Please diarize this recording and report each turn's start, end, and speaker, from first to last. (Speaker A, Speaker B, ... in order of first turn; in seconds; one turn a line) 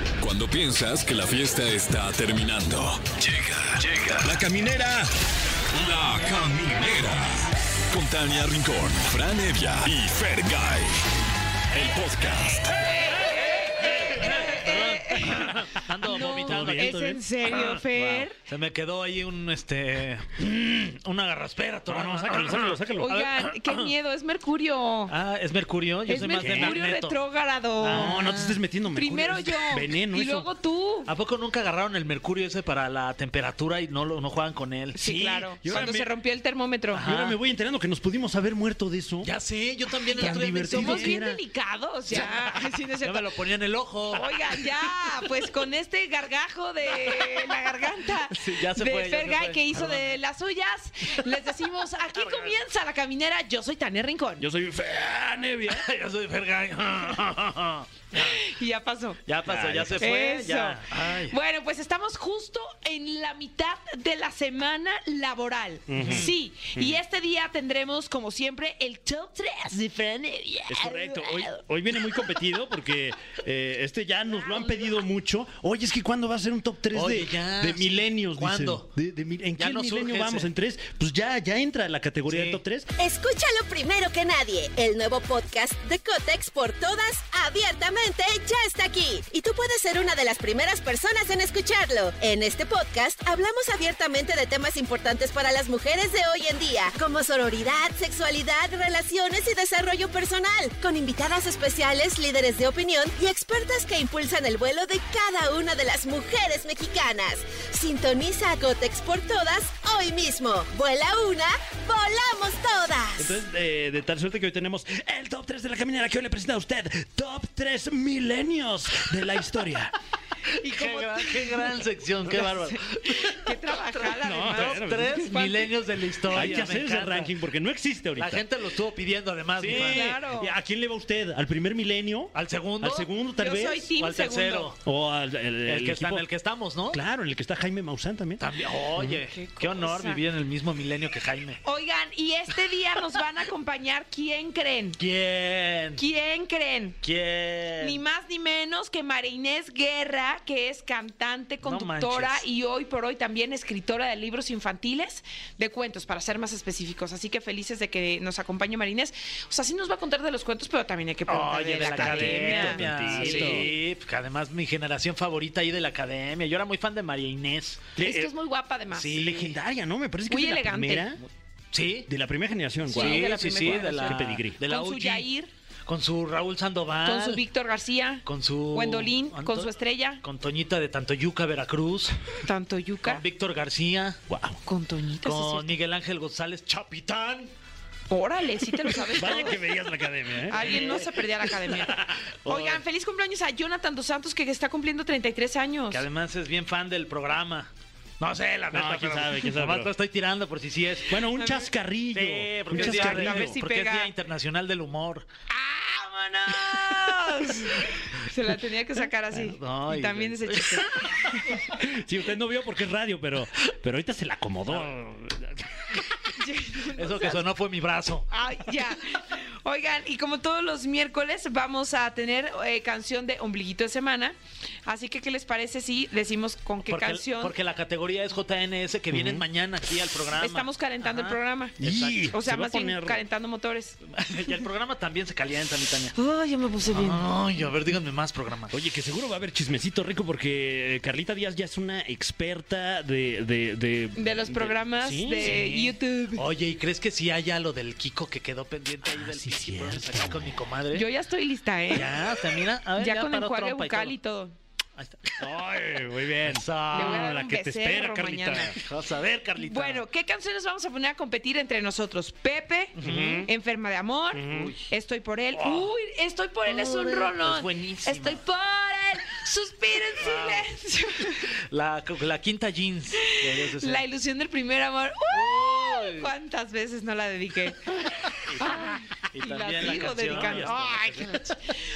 Speaker A: 0.2-5.1
Speaker A: 5.7-10.9
Speaker A: 11.7-12.9
Speaker B: 12.8-18.4
Speaker C: 14.0-23.9
Speaker D: 16.1-17.8
Speaker D: 21.9-23.1
Speaker B: 23.0-25.1
Speaker C: 25.1-27.2
Speaker B: 26.1-31.1
Speaker D: 26.4-26.8
Speaker C: 27.8-28.6
Speaker D: 27.8-30.5
Speaker C: 31.1-35.0
Speaker B: 35.0-37.0
Speaker D: 35.0-36.1
Speaker C: 36.9-37.4
Speaker D: 37.0-39.3
Speaker C: 39.2-41.2
Speaker D: 40.1-41.4
Speaker B: 40.1-43.3
Speaker C: 42.1-44.4
Speaker B: 44.1-54.4
Speaker C: 48.3-50.2
Speaker C: 52.1-52.5
Speaker D: 54.4-55.8
Speaker C: 55.7-58.4
Speaker B: 58.1-59.2
Speaker C: 59.3-61.4
Speaker D: 59.4-60.1
Speaker B: 60.0-72.2
Speaker D: 65.9-66.9
Speaker C: 66.0-66.3
Speaker D: 70.7-82.9
Speaker C: 76.9-78.9
Speaker C: 79.6-80.5
Speaker C: 82.3-82.6
Speaker E: 83.0-113.4
Speaker D: 113.2-119.9
Speaker B: 120.6-125.7
Speaker C: 120.6-123.5
Speaker D: 124.2-125.2
Speaker C: 124.5-127.3
Speaker D: 126.3-128.4
Speaker B: 126.3-126.7
Speaker C: 128.2-130.1
Speaker D: 129.6-133.9
Speaker B: 129.7-130.5
Speaker C: 132.3-133.1
Speaker B: 133.4-134.7
Speaker C: 133.9-134.8
Speaker D: 134.8-136.2
Speaker C: 135.7-137.0
Speaker D: 136.9-138.4
Speaker C: 138.4-141.6
Speaker B: 139.3-140.2
Speaker B: 141.6-145.0
Speaker C: 145.0-146.0
Speaker B: 146.0-147.0
Speaker C: 147.0-148.0
Speaker B: 147.8-163.7
Speaker C: 151.6-152.4
Speaker C: 161.3-167.9
Speaker D: 161.8-163.7
Speaker D: 167.9-168.3
Speaker B: 168.0-169.5
Speaker C: 168.9-169.5
Speaker D: 169.2-171.2
Speaker B: 170.3-171.2
Speaker C: 171.7-172.1
Speaker D: 172.1-174.6
Speaker C: 172.9-175.3
Speaker B: 172.9-175.5
Speaker C: 175.8-177.4
Speaker B: 177.0-180.2
Speaker C: 178.2-179.7
Speaker C: 180.2-182.2
Speaker B: 182.4-183.2
Speaker C: 183.0-184.2
Speaker D: 184.3-184.6
Speaker B: 184.7-185.8
Speaker C: 185.2-187.5
Speaker B: 188.1-189.7
Speaker D: 189.2-191.0
Speaker B: 190.5-196.0
Speaker C: 190.6-191.1
Speaker C: 191.7-192.8
Speaker C: 195.9-201.3
Speaker D: 198.7-199.9
Speaker D: 201.1-203.6
Speaker B: 201.3-201.7
Speaker C: 202.1-205.3
Speaker B: 202.7-204.1
Speaker B: 205.5-211.6
Speaker C: 209.3-211.1
Speaker D: 211.7-216.0
Speaker C: 214.7-214.9
Speaker B: 216.3-217.4
Speaker C: 216.9-218.3
Speaker B: 218.3-227.5
Speaker C: 226.8-232.4
Speaker D: 229.1-229.4
Speaker B: 230.4-231.8
Speaker D: 231.8-233.2
Speaker B: 232.3-234.0
Speaker C: 234.1-236.2
Speaker B: 236.2-237.3
Speaker C: 236.9-238.8
Speaker D: 238.7-245.6
Speaker B: 244.2-246.4
Speaker C: 245.4-251.1
Speaker D: 249.1-250.5
Speaker B: 250.9-252.2
Speaker C: 251.9-254.1
Speaker B: 252.9-254.5
Speaker C: 254.9-255.6
Speaker D: 255.4-258.8
Speaker C: 256.4-257.4
Speaker B: 256.9-258.7
Speaker C: 258.5-260.0
Speaker B: 259.6-271.5
Speaker C: 263.0-263.5
Speaker D: 263.0-263.5
Speaker D: 264.3-264.7
Speaker C: 264.5-264.8
Speaker C: 265.6-265.9
Speaker C: 266.6-268.4
Speaker C: 270.2-270.7
Speaker C: 271.3-274.0
Speaker B: 273.2-281.5
Speaker C: 275.3-276.3
Speaker C: 278.6-281.6
Speaker D: 279.8-280.9